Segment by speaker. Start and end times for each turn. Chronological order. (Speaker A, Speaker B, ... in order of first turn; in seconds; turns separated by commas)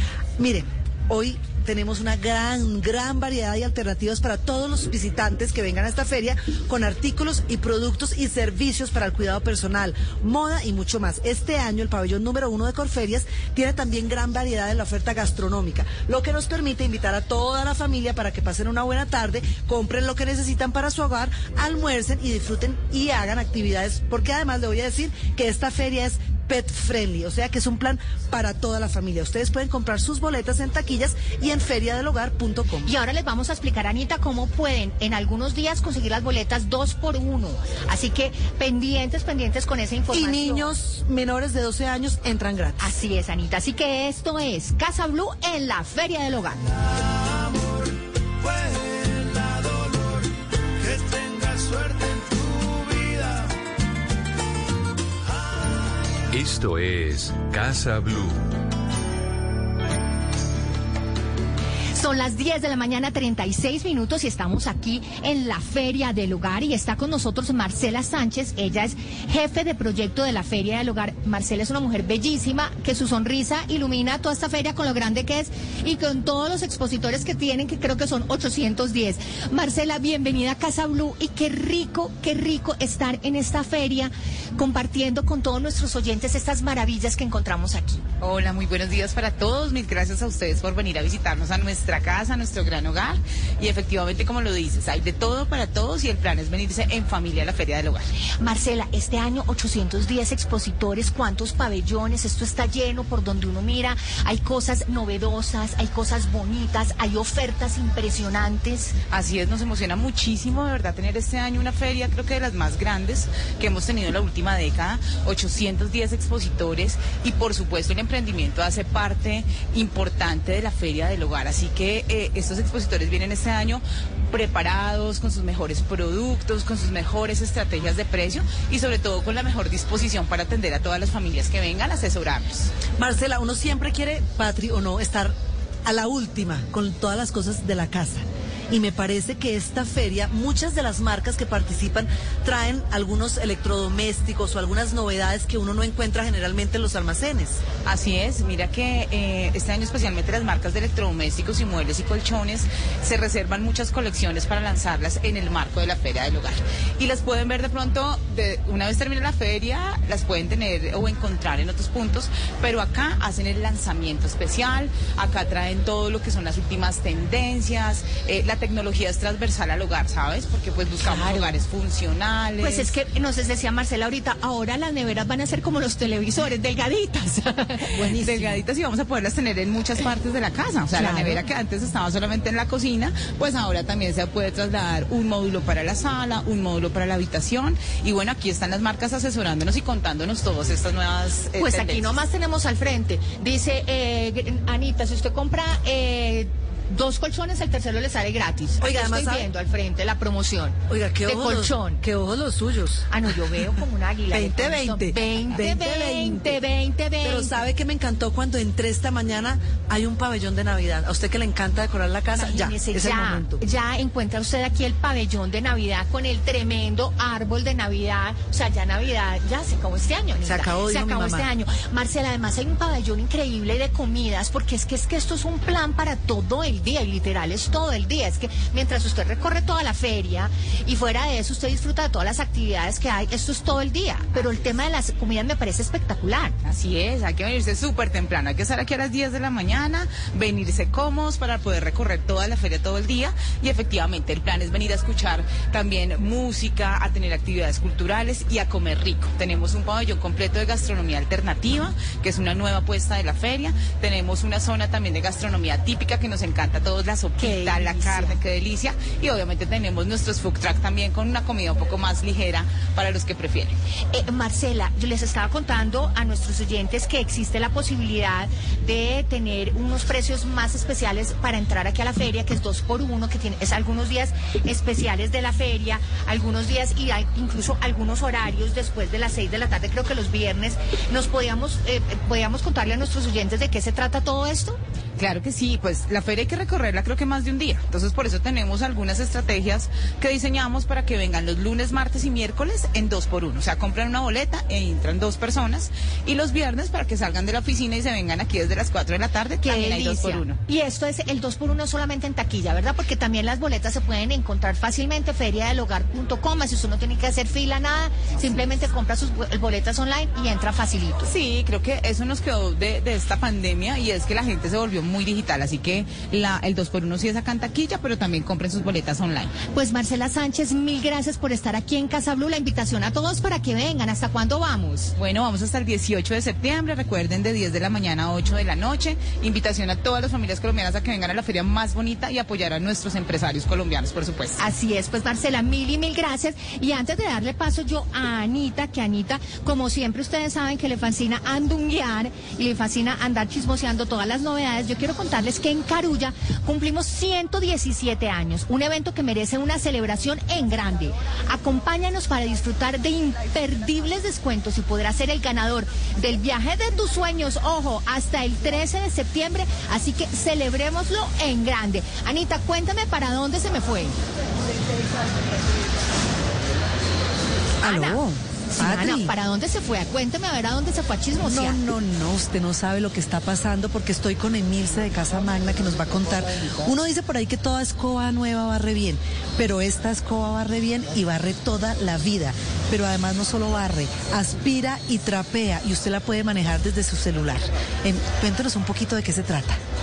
Speaker A: 0.4-32.9, Speaker B: 32.8-40.7, Speaker A: 40.1-42.9, Speaker B: 42.8-46.7, Speaker C: 56.3-58.5, Speaker B: 61.9-88.0, Speaker D: 88.2-98.0, Speaker B: 98.4-108.9, Speaker D: 109.1-132.7, Speaker A: 133.0-147.6, Speaker D: 147.8-172.9, Speaker B: 171.0-171.6, Speaker B: 172.6-178.0, Speaker A: 177.9-178.6, Speaker D: 178.2-192.2, Speaker B: 180.9-181.4, Speaker B: 191.6-202.0, Speaker A: 198.8-199.5, Speaker A: 200.9-203.8, Speaker B: 203.1-207.6, Speaker A: 204.3-206.6, Speaker A: 207.2-213.6, Speaker B: 212.3-236.5, Speaker A: 220.4-221.5, Speaker D: 236.7-263.8, Speaker B: 257.4-258.4, Speaker B: 264.1-284.8, Speaker D: 285.2-300.6, Speaker B: 299.6-311.3, Speaker D: 311.2-319.5, Speaker B: 319.7-325.1, Speaker D: 325.2-334.6, Speaker B: 334.6-364.1, Speaker B: 367.8-368.2, Speaker A: 367.8-369.3, Speaker B: 368.7-371.8, Speaker A: 371.4-389.8